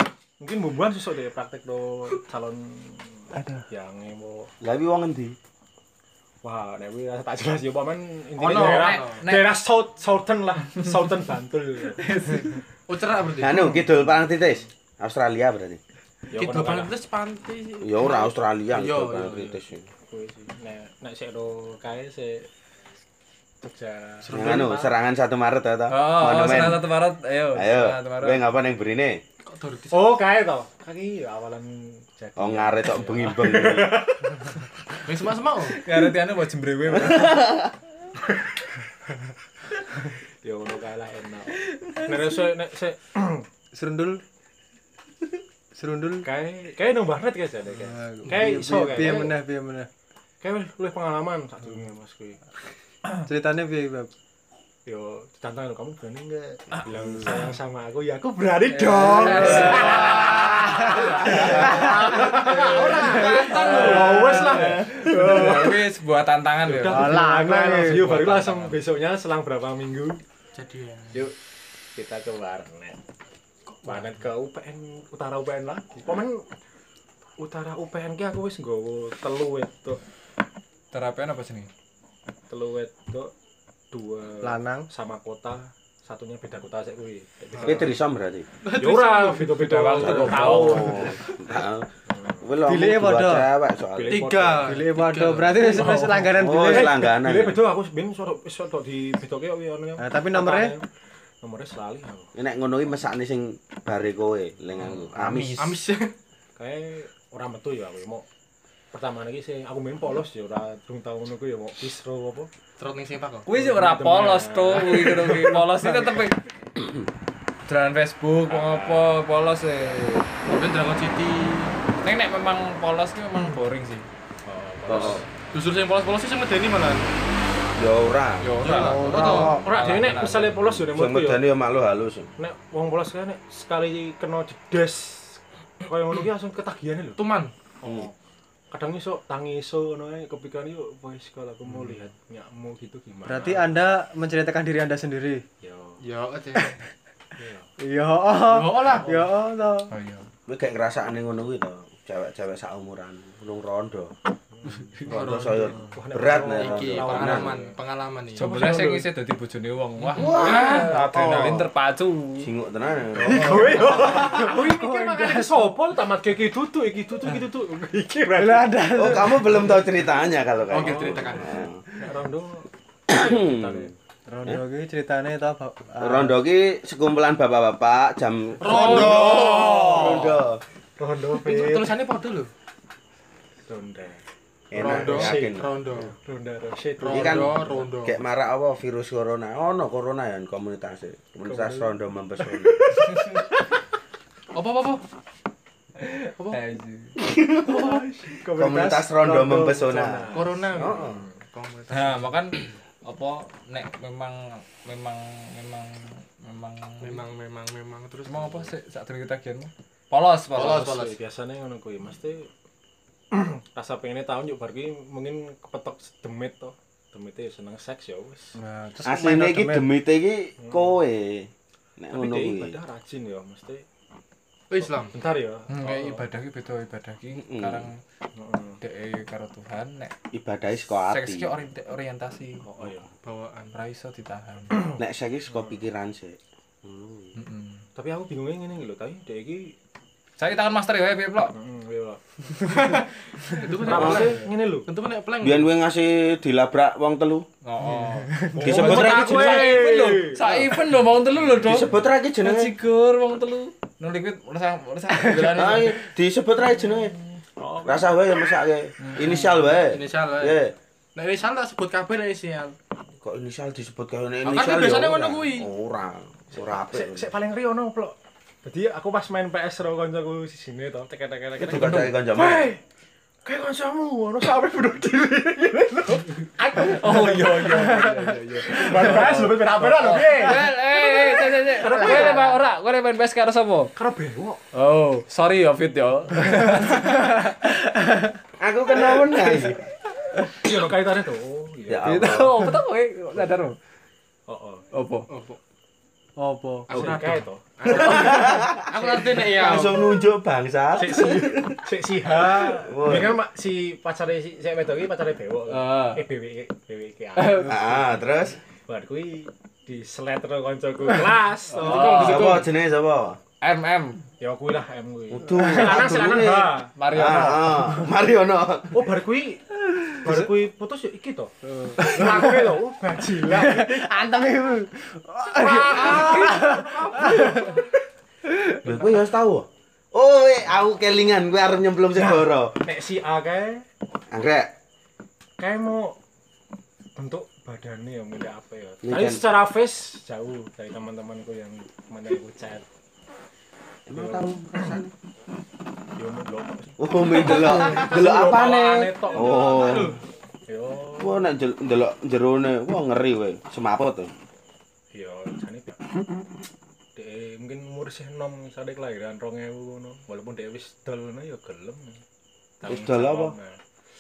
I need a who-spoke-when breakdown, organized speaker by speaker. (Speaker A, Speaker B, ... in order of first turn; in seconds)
Speaker A: 0.4-4.5, 6.4-12.6, 16.3-16.9, 20.1-22.5, 23.6-24.8, 29.9-34.6, 40.4-43.5, 46.2-49.4, 50.4-52.4, 54.9-65.9, 66.6-70.2, 72.0-73.0, 73.8-76.5, 77.4-80.0, 82.5-83.3, 83.9-88.0, 88.7-91.2, 92.1-92.5, 93.9-94.8, 95.7-100.9, 101.4-102.3, 106.6-108.3, 108.9-112.5, 113.5-116.2, 118.5-119.2, 124.5-125.3, 129.5-131.4, 132.4-137.2, 137.8-138.1, 138.7-143.8, 145.6-146.0, 147.4-147.7, 154.6-154.9, 155.9-157.8, 158.4-159.1, 163.2-168.9, 171.9-173.9, 178.6-180.2, 181.0-181.9, 183.7-184.2, 184.8-187.8, 191.5-191.9, 192.9-193.3, 197.6-201.3, 210.6-212.5, 213.3-218.6, 220.6-220.9, 222.1-223.8, 225.0-226.2, 228.4-228.8, 232.6-233.1, 238.0-239.8, 241.5-242.9, 243.6-244.9, 247.8-250.7, 257.6-258.2, 266.5-272.8, 273.4-282.6, 284.0-284.6, 290.6-292.4, 294.5-294.9, 296.9-298.6, 300.9-308.0, 308.9-312.5, 314.4-316.9, 318.9-324.1, 325.6-327.8, 332.1-333.9, 335.6-336.2, 337.2-342.9, 344.1-345.0, 346.2-350.2, 350.7-351.5, 355.1-356.0, 357.1-362.2, 362.8-363.8
Speaker B: 4.6-5.4, 13.4-15.8, 17.8-19.9, 24.3-26.9, 27.5-29.2, 32.4-34.0, 36.9-37.7, 64.6-65.3, 87.6-88.5, 90.0-91.9, 92.4-94.3, 96.3-97.6, 102.3-105.6, 124.9-125.2, 127.8-129.9, 130.8-132.3, 137.8-138.1, 150.5-154.1, 155.1-157.5, 160.2-161.7, 162.4-164.3, 168.9-171.8, 173.1-173.9, 176.0-180.6, 184.7-185.7, 187.1-193.1, 197.2-201.2, 219.0-222.8, 227.4-227.9, 230.3-231.5, 235.0-237.3, 243.9-244.3, 245.4-247.5, 248.6-249.8, 251.6-252.7, 255.3-257.1, 257.9-260.7, 263.2-267.3, 271.6-272.7, 288.6-289.8, 291.9-292.7, 297.9-301.8, 302.5-303.4, 307.6-308.6, 312.1-313.4, 315.3-319.0, 328.8-332.8, 334.3-334.7, 339.0-339.4, 344.1-345.1, 347.0-350.2, 351.2-354.3, 362.9-363.6
Speaker C: 8.4-9.2, 12.9-13.7, 16.4-19.6, 24.2-24.9, 29.5-30.2, 35.0-35.8, 59.6-60.4, 62.2-64.5, 70.5-71.2, 73.7-74.1, 88.6-90.0, 94.1-96.0, 105.6-106.1, 112.8-113.5, 120.5-121.8, 125.0-127.1, 128.6-129.6, 137.2-137.5, 146.0-146.8, 148.4-149.2, 155.1-155.8, 156.4-158.5, 160.2-160.8, 170.7-171.6, 178.6-180.4, 181.3-182.5, 184.8-186.1, 187.0-188.2, 194.5-195.0, 200.3-202.3, 207.0-208.7, 210.5-211.2, 224.7-225.2, 233.2-233.8, 242.7-245.7, 259.7-260.6, 261.1-262.8, 264.4-265.7, 295.3-295.6, 296.9-300.2, 311.8-312.6, 327.3-327.7, 349.3-350.2
Speaker D: 8.4-9.5, 12.0-12.6, 25.9-28.4, 35.7-37.6, 58.7-62.0, 63.5-67.3, 67.9-68.8, 80.9-81.7, 90.0-91.1, 104.9-105.8, 113.5-116.4, 117.7-120.3, 122.0-124.1, 128.4-130.7, 149.9-150.3, 158.4-162.5, 178.9-180.3, 193.0-193.4, 196.0-197.2, 201.9-207.2, 208.3-210.9, 225.7-228.0, 228.8-230.1, 231.1-232.7, 233.7-235.0, 237.3-237.8, 240.4-241.6, 247.6-256.0, 276.7-283.9, 284.7-287.6, 289.5-289.8, 290.3-290.7, 292.0-293.8, 294.9-295.3, 305.7-306.2, 307.4-307.8, 311.8-312.6, 313.6-314.3, 316.9-318.0
Speaker E: 43.7-44.2, 45.8-46.3, 47.8-49.9, 53.1-54.1, 59.3-59.7, 60.9-64.0, 66.8-68.2, 84.4-84.9, 89.8-90.8, 92.6-93.5, 94.6-97.1, 100.0-100.8, 128.9-129.6, 143.3-145.4, 147.8-149.9, 163.6-165.8, 168.4-169.8, 174.3-176.4, 218.6-219.9, 255.3-255.6, 282.1-282.4, 286.9-288.4, 296.4-297.2, 321.9-322.7, 323.4-327.8, 328.5-328.8